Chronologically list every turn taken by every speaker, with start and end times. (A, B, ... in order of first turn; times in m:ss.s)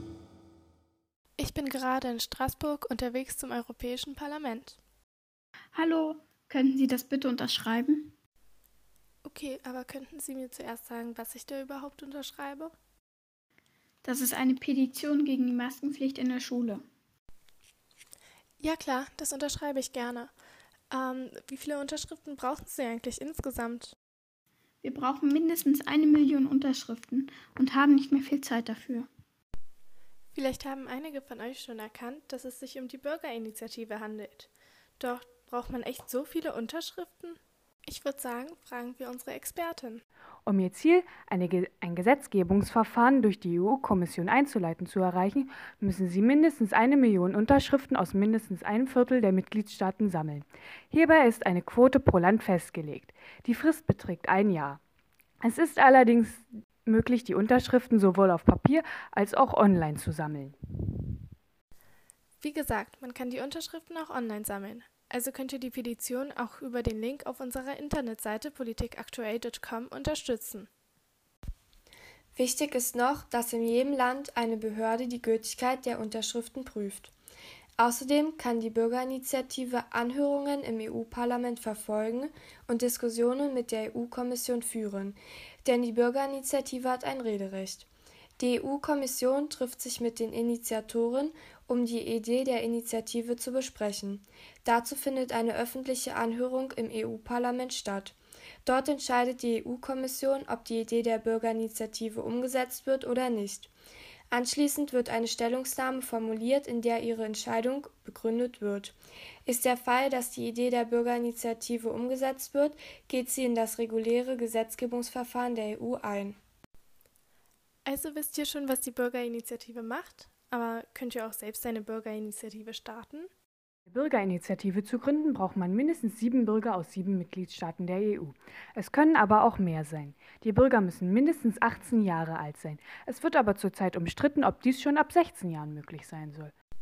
0:01.4-0:04.8 A
0:05.7-0:08.1 B
0:09.2-0:12.7 A
0:14.0-0:16.8 B
0:18.6-0:20.3 A
0:20.9-0:23.9 A
0:24.8-0:29.1 B
0:30.3-0:40.0 A
0:40.4-0:54.8 C
0:55.4-1:00.5 C
1:02.4-1:10.7 A
1:12.3-1:17.1 D
1:17.8-1:27.9 D
1:28.4-1:43.7 D
1:44.3-1:56.4 D
1:57.8-2:03.3 A
2:03.9-2:16.5 C